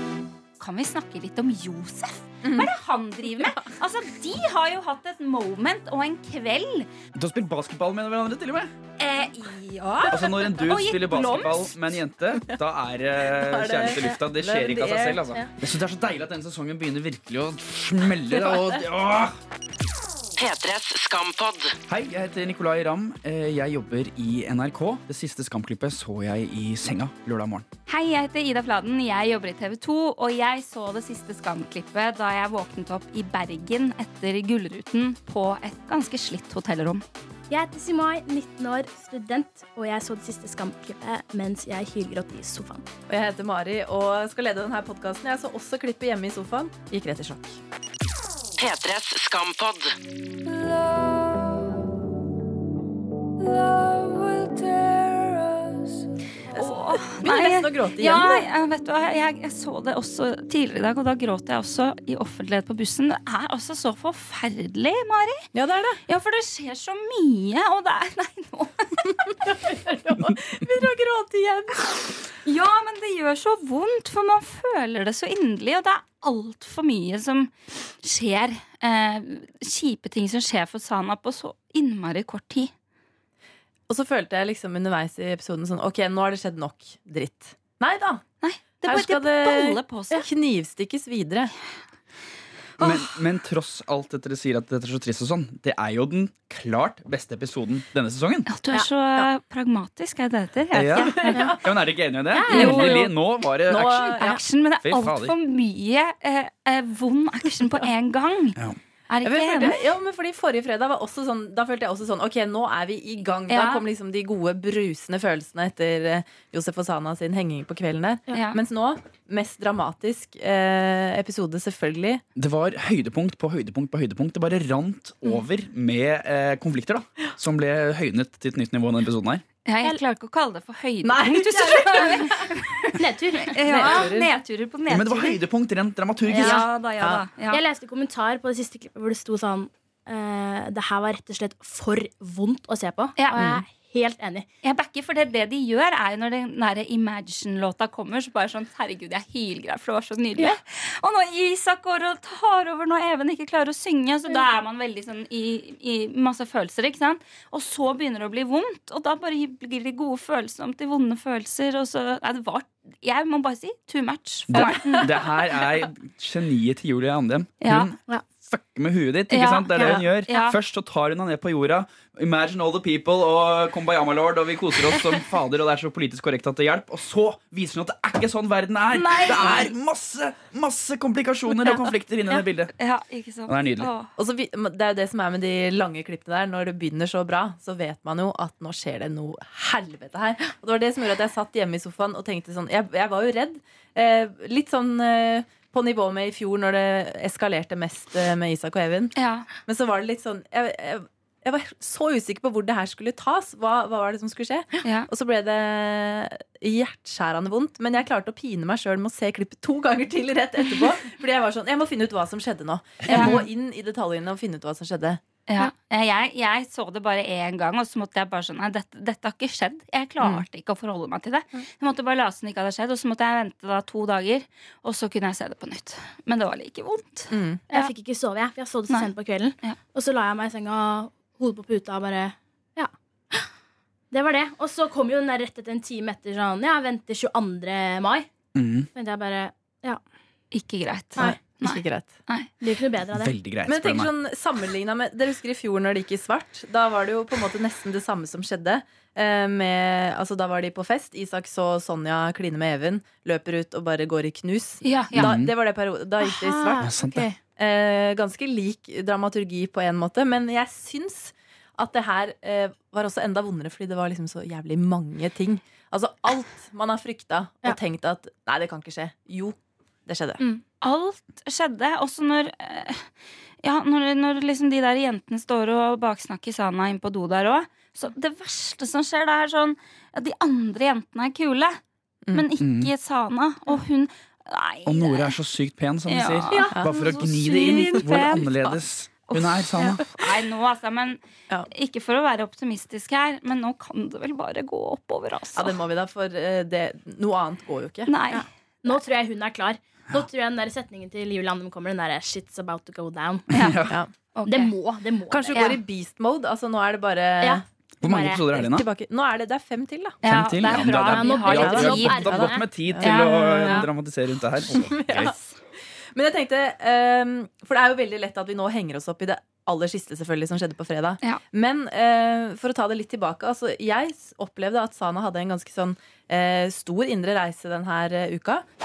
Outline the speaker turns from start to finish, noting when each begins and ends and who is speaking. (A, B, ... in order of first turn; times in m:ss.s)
0:00.6-0:06.9 A
0:02.4-0:02.7 B
0:07.2-0:08.7 C
0:09.0-0:11.9 A
0:10.1-0:19.3 C
0:13.3-0:15.4 B
0:18.3-0:18.6 B
0:20.4-0:21.7 D
0:21.9-0:27.7 C
0:27.9-0:37.0 A
0:37.5-0:42.9 E
0:43.1-0:47.6 B
0:48.6-0:49.9 D
0:56.5-0:58.5 B
0:56.5-1:05.5 A
1:05.5-1:06.0 B
1:06.1-1:09.3 A
1:09.4-1:12.1 B
1:12.4-1:22.7 A
1:23.9-1:28.2 B
1:28.4-1:30.2 A
1:28.8-1:31.5 B
1:32.8-1:38.5 C
1:38.5-1:41.4 A
1:40.7-1:44.2 C
1:41.2-1:41.6 B
1:41.3-1:41.6 E
1:42.3-1:43.1 E
1:42.5-1:43.0 A
1:42.6-1:43.0 B
1:43.6-1:44.4 B
1:44.2-1:49.8 A
1:44.8-1:45.3 C
1:49.2-2:02.2 B
1:53.5-1:53.8 A
1:58.3-1:58.6 A
2:02.4-2:09.4 C
2:09.7-2:15.4 A
2:11.0-2:12.5 B
2:13.0-2:14.1 E
2:13.7-2:14.3 B
2:14.9-2:16.6 C
2:16.3-2:16.7 E
2:16.4-2:17.6 A
2:17.5-2:24.5 E
2:23.2-2:23.5 A
2:23.4-2:23.6 B
2:24.6-2:45.1 A
2:44.5-3:02.7 C
2:44.6-2:45.1 E
2:47.6-2:47.9 A
2:49.3-2:50.6 A
2:58.9-2:59.7 A
3:02.8-3:04.1 A
3:03.5-3:03.9 C
3:04.2-3:19.1 B
3:19.2-3:19.5 A
3:19.7-3:35.2 B
3:33.1-3:33.4 A
3:35.5-3:47.9 A
3:40.2-3:40.4 B
3:47.3-3:47.6 B
3:47.7-3:53.5 E
3:54.1-3:58.3 E
3:58.6-3:58.9 C
3:59.0-4:00.0 E
4:00.5-4:02.5 A
4:01.2-4:02.1 B
4:02.6-4:03.3 E
4:03.1-4:04.1 C
4:03.6-4:17.0 B
4:14.8-4:15.3 A
4:15.2-4:15.5 C
4:16.2-4:17.4 E
4:16.8-4:17.3 C
4:17.6-4:30.4 B
4:30.8-4:33.1 A
4:33.6-4:41.8 A
4:42.3-4:45.4 A
4:42.6-4:42.9 C
4:44.9-4:50.0 C
4:46.1-4:46.7 A
4:46.5-4:48.0 E
4:47.4-4:48.8 A
4:49.3-4:55.7 A
4:55.5-4:58.1 B
4:58.1-4:58.5 A
4:58.3-5:03.5 E
5:03.5-5:03.9 C
5:03.5-5:04.7 A
5:04.5-5:05.6 E
5:05.3-5:10.2 B
5:05.5-5:05.8 A
5:08.0-5:08.9 C
5:08.0-5:08.3 A
5:10.2-5:12.5 A
5:10.2-5:15.3 C
5:11.0-5:12.6 E
5:11.5-5:13.8 B
5:13.0-5:13.8 A
5:14.6-5:15.4 B
5:16.0-5:28.6 B